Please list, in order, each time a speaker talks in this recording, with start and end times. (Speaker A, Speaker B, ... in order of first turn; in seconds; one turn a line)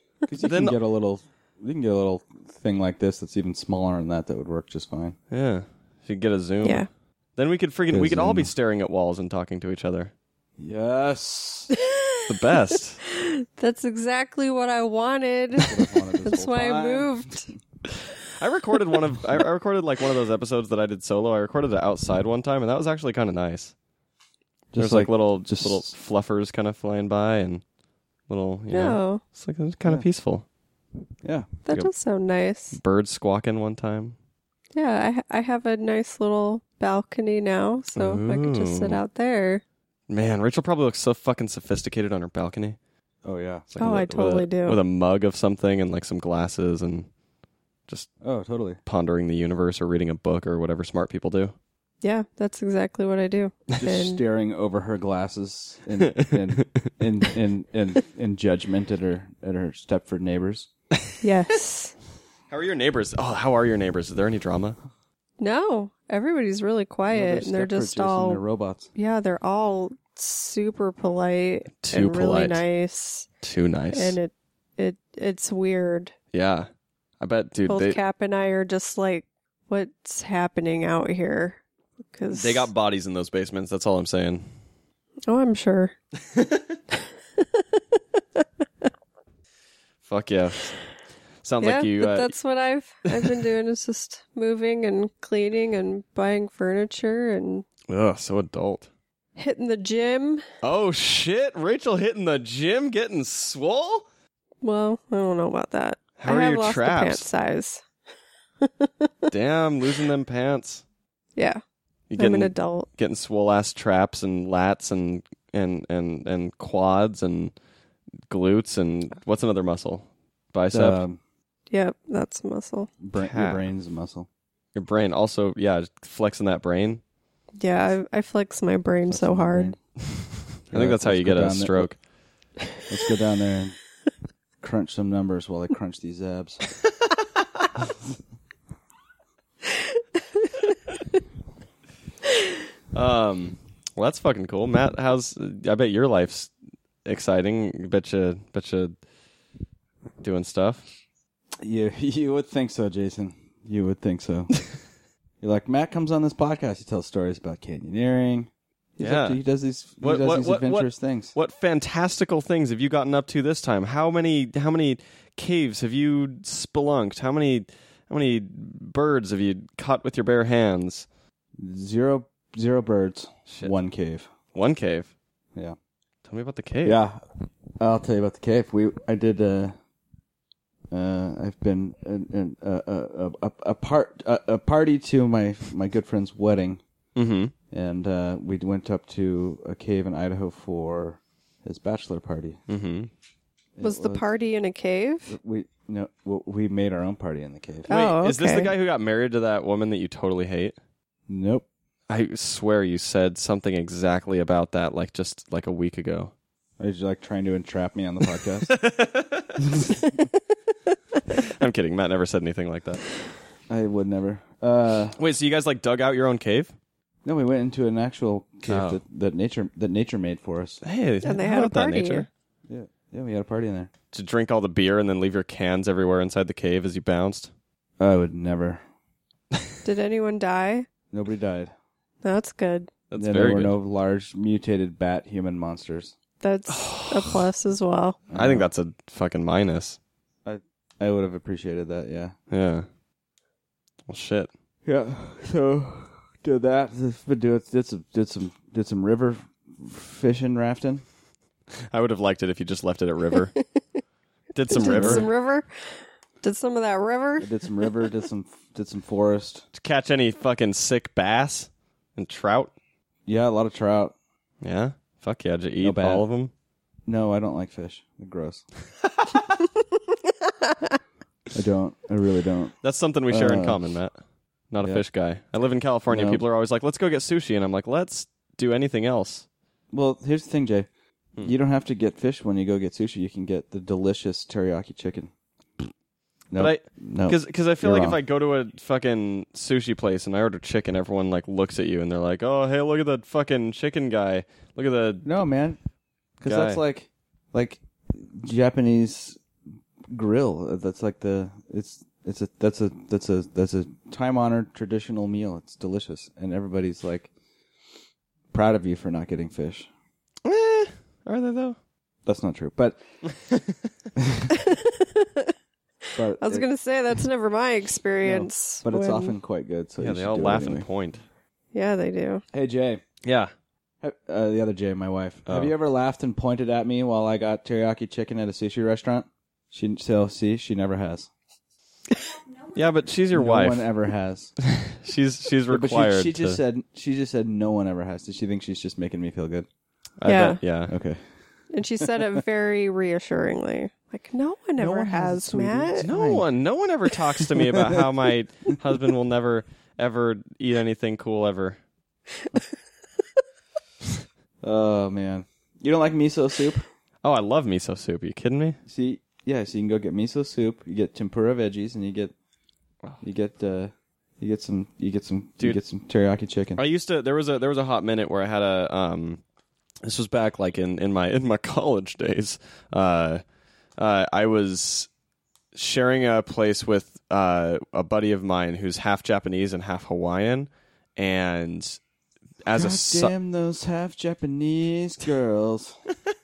Speaker A: 0.3-5.2
Speaker B: 0.4-0.8
Speaker B: 5.3-10.1
Speaker A: 7.9-8.5
Speaker A: 10.6-11.7
Speaker C: 11.8-17.5
Speaker B: 12.3-13.0
Speaker A: 15.6-17.3
Speaker B: 18.4-23.7
Speaker A: 24.7-25.9
Speaker B: 24.8-27.6
Speaker B: 28.3-30.4
Speaker C: 28.7-29.2
Speaker A: 31.2-31.5
Speaker C: 31.7-32.8
Speaker B: 32.7-34.1
Speaker C: 34.7-39.6
Speaker B: 38.0-39.0
Speaker B: 40.1-42.8
Speaker A: 43.2-43.7
Speaker B: 43.7-47.1
Speaker C: 43.8-44.8
Speaker A: 48.2-48.8
Speaker B: 48.9-51.5
Speaker C: 52.0-54.2
Speaker A: 53.8-60.7
Speaker B: 56.0-56.9
Speaker C: 61.2-61.9
Speaker B: 62.5-64.8
Speaker C: 65.4-68.4
Speaker A: 67.1-68.9
Speaker C: 68.9-73.3
Speaker B: 71.8-72.6
Speaker B: 73.4-74.2
Speaker C: 73.9-76.1
Speaker B: 76.3-76.7
Speaker B: 77.2-78.0
Speaker C: 77.7-81.6
Speaker C: 82.1-82.7
Speaker B: 82.3-84.4
Speaker C: 85.3-85.9
Speaker B: 86.3-86.8
Speaker C: 86.9-88.4
Speaker B: 90.0-90.7
Speaker B: 91.4-92.3
Speaker C: 91.6-97.7
Speaker B: 97.9-98.9
Speaker C: 99.3-100.4
Speaker B: 100.6-104.0
Speaker C: 104.6-107.8
Speaker B: 106.2-107.3
Speaker C: 108.6-109.3
Speaker B: 109.3-110.8
Speaker C: 111.3-111.6
Speaker B: 112.1-117.5
Speaker C: 112.2-112.9
Speaker B: 118.3-121.0
Speaker A: 120.7-121.2
Speaker C: 121.7-122.9
Speaker A: 123.0-124.3
Speaker B: 123.2-123.6
Speaker B: 124.7-127.0
Speaker C: 127.6-129.7
Speaker A: 129.1-129.8
Speaker B: 130.7-132.0
Speaker A: 130.7-131.9
Speaker A: 132.9-133.8
Speaker A: 134.6-136.7
Speaker C: 140.0-140.5
Speaker B: 142.9-146.5
Speaker B: 147.0-148.9
Speaker B: 150.2-150.8
Speaker A: 151.6-154.5
Speaker A: 155.4-161.3
Speaker B: 159.0-159.4
Speaker B: 160.0-171.1
Speaker A: 171.6-174.3
Speaker B: 173.5-173.7
Speaker B: 174.5-175.1
Speaker B: 176.3-177.0
Speaker A: 176.8-177.2
Speaker A: 177.8-179.7
Speaker A: 180.9-186.8
Speaker B: 187.2-187.5
Speaker A: 187.7-192.6
Speaker B: 192.7-193.1
Speaker A: 193.8-194.3
Speaker C: 193.8-195.3
Speaker A: 195.3-197.9
Speaker B: 197.9-200.8
Speaker C: 197.9-198.7
Speaker A: 201.3-201.7
Speaker B: 202.1-206.3
Speaker A: 206.8-208.7
Speaker B: 208.7-209.6
Speaker A: 209.6-210.1
Speaker B: 211.3-213.0
Speaker A: 213.7-215.2
Speaker B: 215.2-216.7
Speaker A: 217.2-220.8
Speaker B: 218.7-219.0
Speaker B: 220.8-222.3
Speaker C: 221.2-222.2
Speaker A: 222.7-223.9
Speaker B: 224.1-227.5
Speaker A: 228.0-228.8
Speaker C: 229.8-230.9
Speaker A: 231.1-231.7
Speaker C: 232.2-232.9
Speaker B: 233.1-233.8
Speaker A: 233.2-236.1
Speaker C: 236.4-238.2
Speaker B: 236.7-237.5
Speaker A: 238.3-238.7
Speaker B: 238.3-240.0
Speaker A: 240.4-242.3
Speaker B: 242.5-242.8
Speaker B: 244.1-244.5
Speaker A: 244.8-251.0
Speaker B: 251.9-253.5
Speaker C: 253.3-253.6
Speaker B: 254.5-255.3
Speaker C: 254.7-257.9
Speaker A: 254.8-255.3
Speaker A: 257.4-259.6
Speaker B: 259.8-262.7
Speaker A: 263.3-264.1
Speaker B: 264.6-266.5
Speaker A: 265.8-266.2
Speaker A: 267.1-268.6
Speaker C: 270.7-270.9
Speaker A: 271.5-272.7
Speaker B: 272.8-274.1
Speaker A: 273.3-273.8
Speaker B: 274.7-279.4
Speaker A: 276.1-276.4
Speaker A: 279.9-280.9
Speaker A: 281.4-285.9
Speaker A: 286.5-288.2
Speaker B: 286.6-295.3
Speaker A: 295.2-295.8
Speaker A: 296.4-299.4
Speaker B: 296.4-296.8
Speaker A: 300.1-307.3
Speaker A: 308.5-309.9
Speaker B: 310.4-311.8
Speaker A: 312.2-313.0
Speaker B: 313.3-313.8
Speaker A: 314.2-314.5
Speaker C: 314.5-315.5
Speaker A: 316.2-316.6
Speaker C: 316.4-319.4
Speaker A: 318.2-320.9
Speaker B: 320.0-321.2
Speaker C: 321.7-322.4
Speaker A: 322.5-323.0
Speaker B: 323.2-323.5
Speaker A: 324.0-331.3
Speaker B: 325.4-325.7
Speaker B: 332.7-333.9
Speaker A: 333.3-334.5
Speaker B: 334.6-336.6
Speaker A: 335.7-339.7
Speaker B: 340.2-340.9
Speaker C: 340.2-340.6
Speaker A: 340.9-341.2
Speaker C: 341.7-346.0
Speaker A: 342.1-342.4
Speaker A: 344.8-346.4
Speaker B: 346.0-351.8
Speaker A: 354.6-356.8
Speaker B: 357.2-358.8
Speaker A: 358.9-362.3
Speaker A: 363.2-366.8
Speaker B: 366.8-369.4
Speaker B: 370.0-373.4
Speaker B: 374.0-375.1
Speaker B: 375.7-382.0
Speaker B: 382.6-383.3
Speaker A: 382.7-385.9